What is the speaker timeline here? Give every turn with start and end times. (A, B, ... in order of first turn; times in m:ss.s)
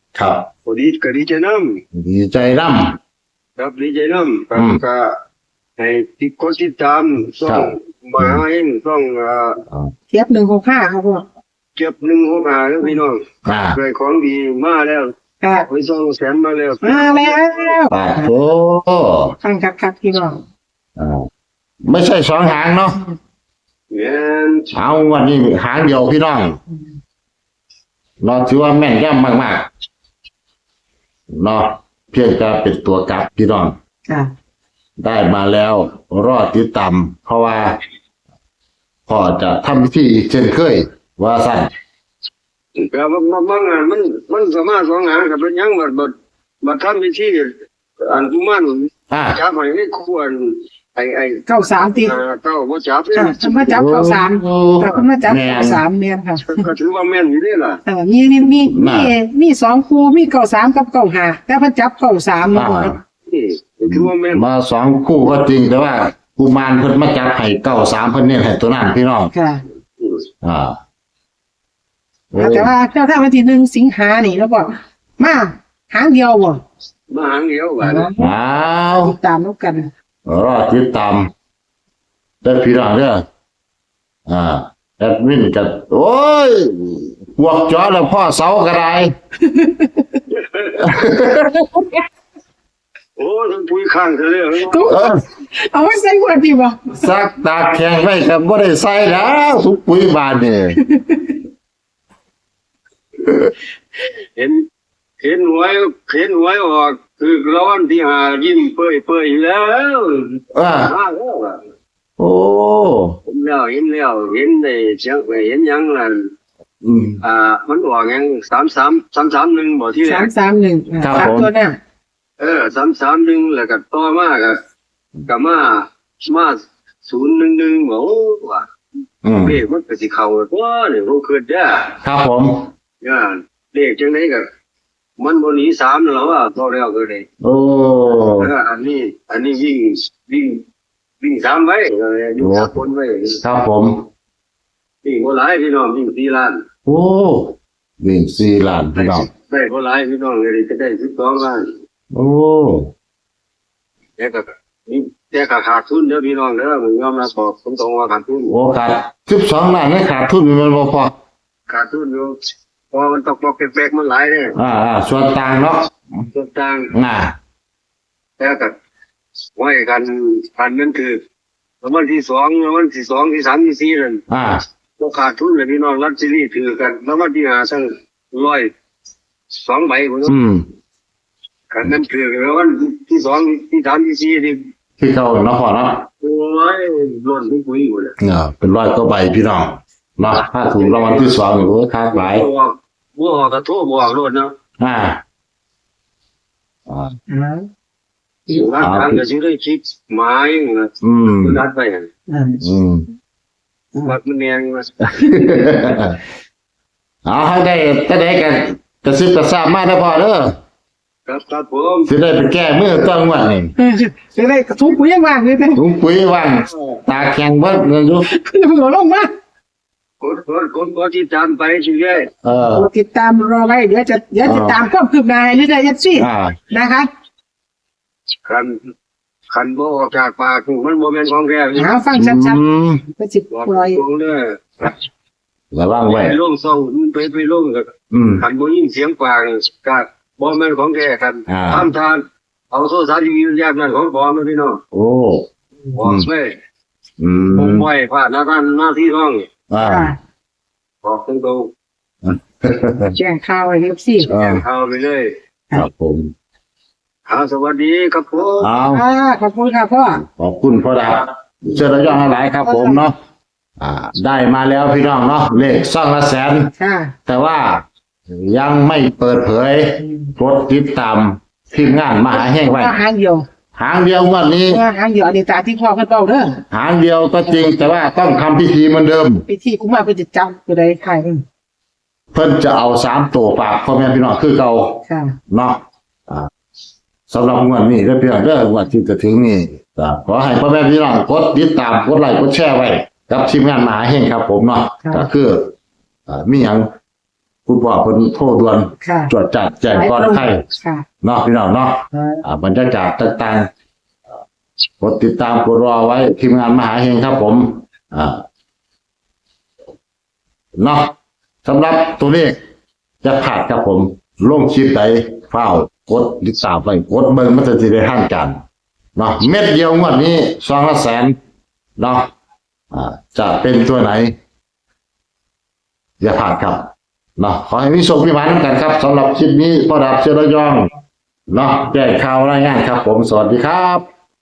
0:00.2-0:00.5 A
0:00.6-0:01.8 B
0:01.9-0:03.0 A
0:03.6-0:05.1 B
0:04.6-0:04.8 A
0:05.8-0:09.6 B
0:07.5-0:08.4 A
0:10.1-0:11.2 C
0:11.8-0:17.8 B
0:13.5-0:13.8 A
0:15.4-0:15.7 C
0:16.8-0:18.3 C
0:17.9-0:19.3 A
0:19.4-0:20.4 C
0:21.0-0:21.2 A
0:21.8-0:23.0 A
0:23.9-0:24.7 B
0:24.7-0:26.6 A
0:28.2-0:29.7 A
0:31.3-0:33.8 A
0:35.0-0:37.7 A
0:39.1-0:41.7 A
0:42.8-0:47.5 B
0:48.0-0:53.8 B
0:49.1-0:49.4 A
0:51.5-0:52.2 C
0:53.1-0:56.6 C
0:53.7-0:55.8 A
0:56.5-0:57.8 B
0:57.9-1:03.0 C
0:58.7-0:59.1 A
1:02.5-1:03.0 A
1:03.3-1:04.4 B
1:03.9-1:09.3 A
1:09.3-1:09.6 C
1:10.0-1:10.3 B
1:10.4-1:10.8 A
1:12.3-1:12.7 A
1:12.4-1:16.6 C
1:17.1-1:18.1 B
1:17.8-1:18.3 C
1:18.2-1:19.1 A
1:18.9-1:19.9 C
1:20.3-1:21.3 A
1:22.4-1:23.2 A
1:24.3-1:29.1 A
1:29.5-1:30.0 C
1:30.3-1:31.0 B
1:30.8-1:31.6 A
1:33.2-1:34.9 B
1:34.6-1:37.0 C
1:34.8-1:35.2 A
1:37.0-1:40.8 A
1:40.8-1:41.3 C
1:44.4-1:44.6 B
1:45.2-1:51.6 B
1:50.6-1:50.9 A
1:52.2-1:53.2 A
1:53.3-1:56.2 B
1:56.8-1:57.2 A
1:57.2-2:00.3 B
2:00.0-2:01.8 C
2:01.0-2:01.5 A
2:02.4-2:04.6 B
2:05.3-2:08.6 B
2:09.2-2:09.6 A
2:09.4-2:11.9 B
2:12.0-2:12.7 A
2:13.0-2:14.5 B
2:15.2-2:17.2 B
2:17.4-2:18.5 A
2:18.2-2:20.6 B
2:21.2-2:23.4 B
2:22.4-2:22.8 A
2:23.4-2:23.9 A
2:25.0-2:26.6 B
2:26.9-2:29.3 A
2:29.0-2:31.6 B
2:32.1-2:32.9 A
2:34.2-2:38.5 B
2:38.5-2:41.1 A
2:41.7-2:42.4 B
2:42.9-2:44.6 B
2:44.6-2:45.9 A
2:46.3-2:46.9 B
2:46.9-2:47.3 A
2:48.4-2:48.8 B
2:49.6-2:51.2 B
2:51.8-2:54.2 B
2:54.3-2:54.6 A
2:55.0-2:58.7 B
2:59.5-3:00.4 B
3:00.3-3:00.6 A
3:01.7-3:04.6 B
3:05.0-3:06.0 A
3:06.2-3:08.2 B
3:08.2-3:12.5 A
3:10.8-3:11.4 B
3:12.1-3:14.5 B
3:14.8-3:15.2 A
3:16.9-3:17.2 A
3:17.3-3:17.7 C
3:18.5-3:22.1 B
3:18.8-3:19.2 A
3:21.0-3:21.6 A
3:22.3-3:22.6 C
3:22.6-3:23.1 A
3:24.0-3:25.0 B
3:25.2-3:26.2 A
3:25.2-3:25.5 C
3:27.3-3:30.6 A
3:31.3-3:32.1 B
3:32.1-3:33.7 A
3:33.8-3:35.8 C
3:35.8-3:38.3 A
3:38.3-3:39.3 C
3:40.2-3:42.3 B
3:42.4-3:42.9 A
3:42.8-3:47.1 C
3:44.4-3:44.8 A
3:46.2-3:46.6 A
3:48.5-3:48.7 B
3:49.5-3:52.0 B
3:51.8-3:52.6 C
3:52.2-3:53.0 A
3:53.2-3:54.0 C
3:53.5-3:55.0 B
3:55.7-3:56.4 A
3:56.1-4:04.8 B
3:58.1-3:58.5 A
4:01.5-4:01.9 A
4:04.9-4:05.5 A
4:06.0-4:06.6 B
4:06.0-4:06.3 A
4:07.2-4:07.9 A
4:07.5-4:09.5 B
4:09.7-4:10.1 A
4:09.8-4:10.2 C
4:11.0-4:11.7 B
4:12.2-4:13.2 A
4:13.1-4:14.3 C
4:14.2-4:15.3 B
4:14.3-4:14.6 A
4:15.7-4:16.3 A
4:17.3-4:18.7 B
4:18.6-4:19.0 A
4:18.9-4:20.2 C
4:20.2-4:23.2 A
4:22.6-4:23.0 C
4:23.8-4:26.7 A
4:26.8-4:27.1 C
4:27.3-4:33.0 A
4:30.0-4:30.3 C
4:32.3-4:33.5 C
4:33.8-4:34.8 A
4:34.7-4:36.6 C
4:36.7-4:39.5 A
4:39.5-4:41.4 C
4:42.3-4:46.5 A
4:45.1-4:45.4 C
4:47.3-4:55.7 A
4:56.3-4:56.9 A
4:57.7-5:00.6 A
4:59.0-4:59.3 C
4:59.9-5:01.1 C
5:01.2-5:03.7 A
5:02.1-5:02.4 C
5:05.0-5:08.4 A
5:10.8-5:12.6 A
5:13.2-5:18.6 A
5:19.2-5:21.4 A
5:22.0-5:22.3 A
5:22.9-5:24.3 A
5:26.2-5:30.9 A
5:31.5-5:34.1 A